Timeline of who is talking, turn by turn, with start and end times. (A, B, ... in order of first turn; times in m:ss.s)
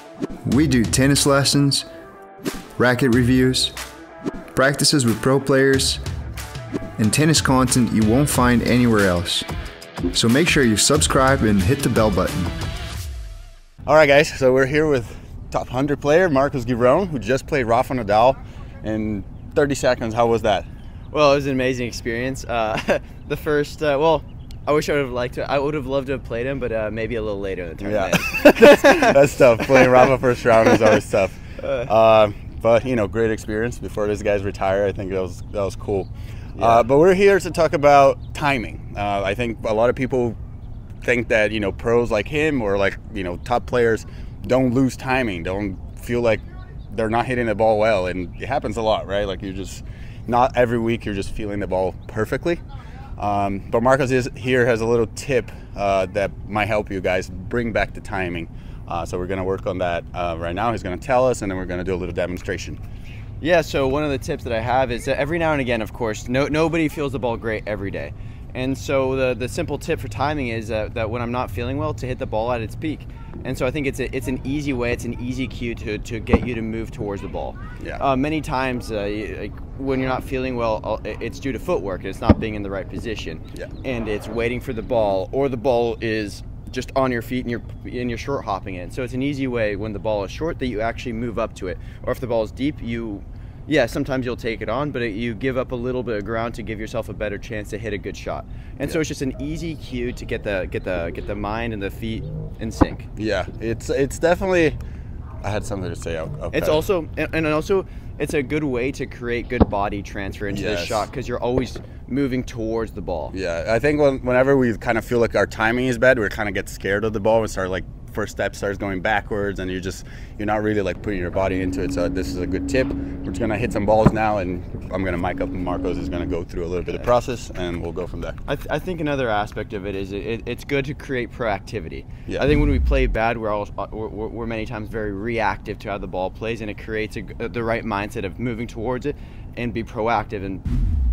0:00.4-0:01.9 A
0:02.8-0:03.8 A
0:04.5-0:06.0 A
0:07.0-0:09.5 A
0:10.1-0:12.5 A
0:13.9-0:20.7 B
0:21.1-0:30.1 C
0:27.8-0:40.4 B
0:31.6-0:31.9 C
0:36.6-0:36.8 C
0:41.0-0:52.6 B
0:53.2-1:02.8 B
1:03.4-1:43.1 C
1:43.2-1:44.8 B
1:45.4-1:46.8 B
1:46.5-1:53.4 C
1:50.5-1:51.1 B
1:53.3-2:08.4 B
2:08.5-2:20.6 C